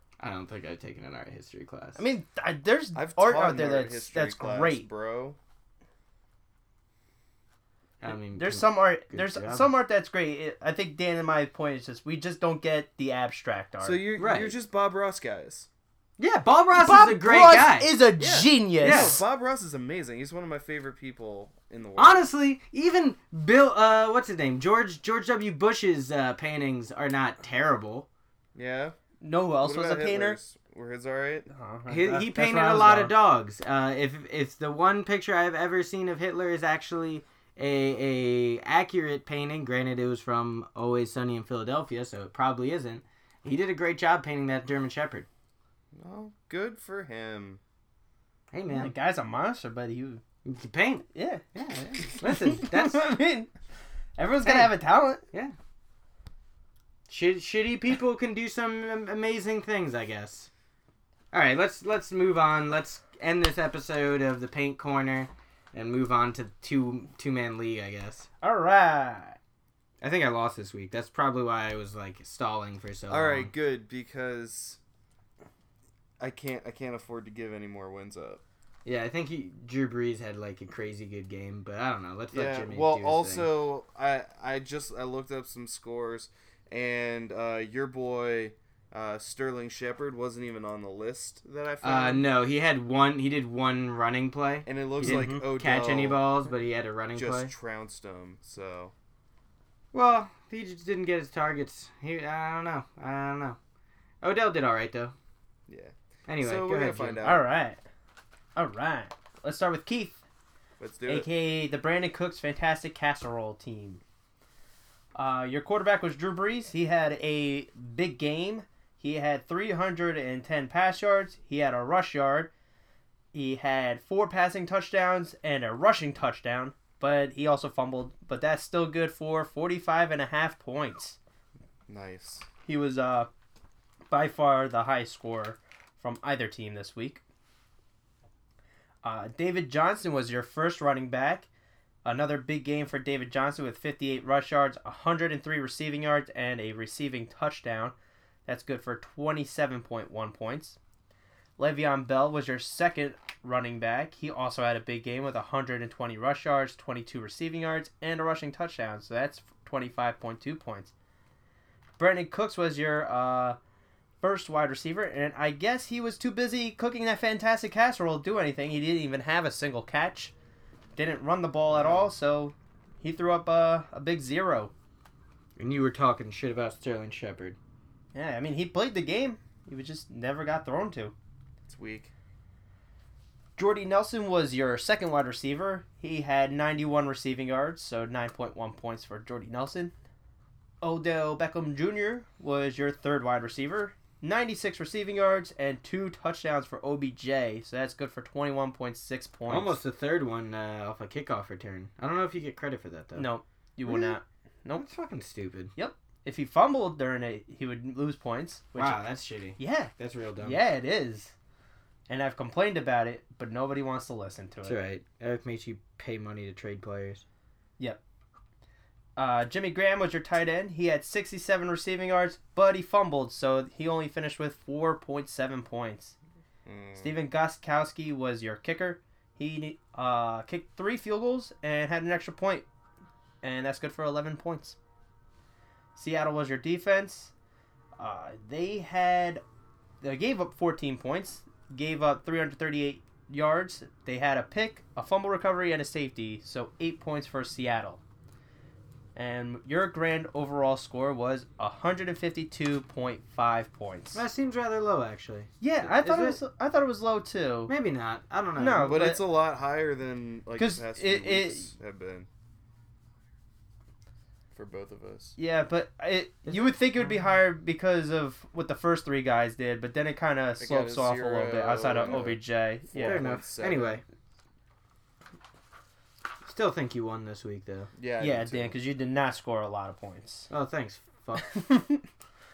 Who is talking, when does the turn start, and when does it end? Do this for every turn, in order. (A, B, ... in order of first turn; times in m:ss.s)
0:00.2-0:02.0 A
0:02.0-0:04.9 B
0:02.9-0:05.4 C
0:08.0-0:09.7 A
0:08.1-0:14.0 B
0:13.8-0:15.7 C
0:14.2-0:14.6 A
0:16.2-0:17.9 A
0:16.8-0:19.2 B
0:18.2-0:22.2 C
0:18.8-0:19.2 A
0:22.0-0:28.1 A
0:28.5-0:29.0 C
0:29.2-0:30.4 B
0:29.6-0:31.5 C
0:31.5-0:33.1 B
0:31.9-0:45.3 A
0:45.9-0:47.6 C
0:48.5-0:48.9 A
0:48.7-0:50.2 B
0:50.4-0:53.1 A
0:51.1-0:51.4 B
0:52.0-0:53.5 B
0:54.2-0:55.2 B
0:54.4-0:54.7 A
0:57.1-1:00.5 A
1:01.3-1:08.3 A
1:08.4-1:09.4 B
1:10.0-1:13.5 A
1:13.1-1:14.8 C
1:16.2-1:18.4 C
1:18.8-1:23.5 A
1:22.3-1:32.3 C
1:31.8-1:37.5 A
1:34.6-1:36.2 C
1:35.0-1:35.4 B
1:37.1-1:38.9 C
1:39.9-1:43.6 A
1:44.2-1:45.1 A
1:45.7-1:47.4 C
1:46.3-1:47.2 A
1:47.2-1:47.8 B
1:48.6-1:50.2 B
1:50.8-1:51.3 C
1:51.1-1:54.0 B
1:55.1-2:02.5 B
2:03.3-2:11.2 B
2:11.9-2:12.5 C
2:12.6-2:13.3 B
2:14.1-2:17.2 B
2:19.0-2:21.5 B
2:22.0-2:27.9 B
2:28.4-2:30.8 B
2:31.6-2:40.9 B
2:42.0-2:43.6 B
2:44.2-2:50.3 B
2:51.0-2:54.7 B
2:51.7-2:52.1 C
2:55.6-2:57.6 A
2:58.1-3:01.1 B
3:01.6-3:02.1 C
3:03.6-3:09.9 B
3:10.8-3:19.8 B
3:19.5-3:23.3 A
3:23.2-3:24.8 B
3:23.8-3:24.2 A
3:24.7-3:25.7 A
3:25.8-3:29.0 B
3:28.8-3:30.6 A
3:29.6-3:31.3 B
3:32.1-3:34.8 B
3:34.6-3:37.2 A
3:39.2-3:46.2 B
3:46.6-3:47.2 C
3:47.0-3:52.6 B
3:53.4-3:54.8 B
3:56.0-3:57.3 B
3:58.0-3:59.4 B
4:00.0-4:08.0 B
4:09.1-4:14.2 B
4:14.1-4:16.4 A
4:15.6-4:17.7 B
4:17.7-4:19.0 A
4:18.6-4:19.2 B
4:18.8-4:22.3 C
4:20.6-4:21.7 B
4:24.5-4:25.4 C
4:25.4-4:33.2 B
4:26.4-4:27.1 A
4:30.6-4:32.4 C
4:32.9-4:34.0 C
4:33.0-4:34.0 A
4:36.4-4:37.9 A
4:38.0-4:38.8 C
4:38.2-4:40.5 B
4:40.5-4:41.5 A
4:41.4-4:42.0 B